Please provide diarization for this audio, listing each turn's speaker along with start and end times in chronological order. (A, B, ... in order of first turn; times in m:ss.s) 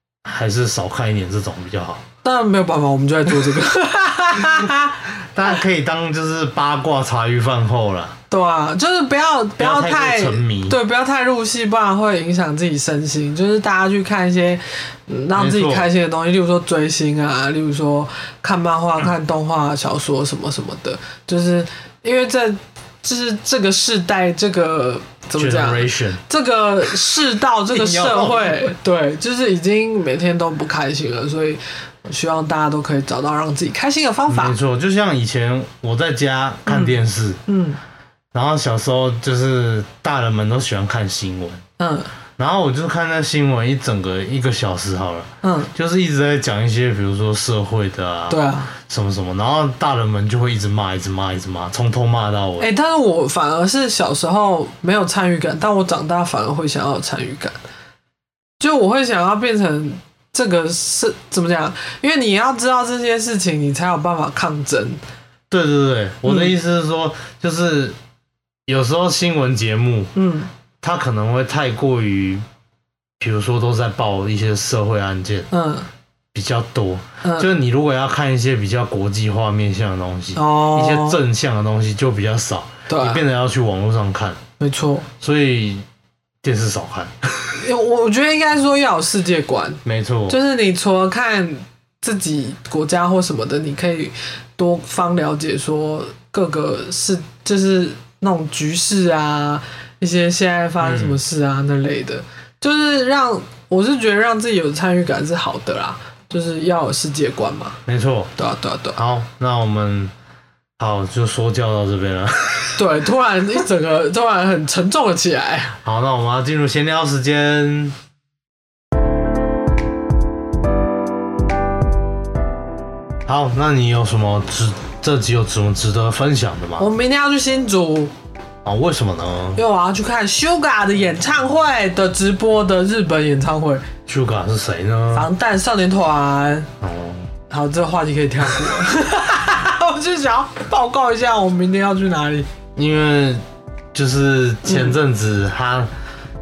0:00.2-0:02.0 A
0:02.2-0:05.0 B
0:05.2-0:08.2 A
0:08.3-0:34.6 B
0:09.6-0:10.8 A
0:15.3-0:15.9 A
0:25.4-0:26.2 A
0:27.7-0:28.7 A
0:34.3-0:37.4 A
0:36.6-0:37.0 B
0:37.5-0:37.8 B
0:38.3-0:41.6 A
0:41.8-0:42.1 B
0:42.4-0:52.7 A
0:45.4-0:45.7 B
0:48.3-0:48.7 B
0:52.6-0:57.6 B
0:58.6-1:05.0 B
1:05.5-1:08.0 A
1:08.7-1:10.1 A
1:10.1-1:10.5 B
1:10.8-1:12.4 A
1:13.2-1:15.5 A
1:15.5-1:15.9 B
1:16.3-1:24.4 A
1:17.2-1:17.5 B
1:20.3-1:21.2 B
1:22.9-1:23.2 B
1:24.6-1:25.1 B
1:25.2-1:25.8 A
1:26.4-1:27.6 A
1:27.6-1:47.8 B
1:29.8-1:30.4 A
1:40.8-1:41.2 A
1:47.8-1:48.3 A
1:48.4-1:49.0 B
1:49.0-1:50.1 A
1:50.8-1:52.8 A
1:52.8-1:55.8 B
1:55.8-1:58.0 A
2:03.2-2:06.9 A
2:06.8-2:08.1 B
2:08.6-2:09.6 A
2:09.6-2:13.8 B
2:14.1-2:15.3 A
2:15.1-2:16.7 B
2:16.8-2:17.3 A
2:17.5-2:22.5 B
2:22.8-2:23.4 A
2:23.9-2:25.9 A
2:24.7-2:24.9 B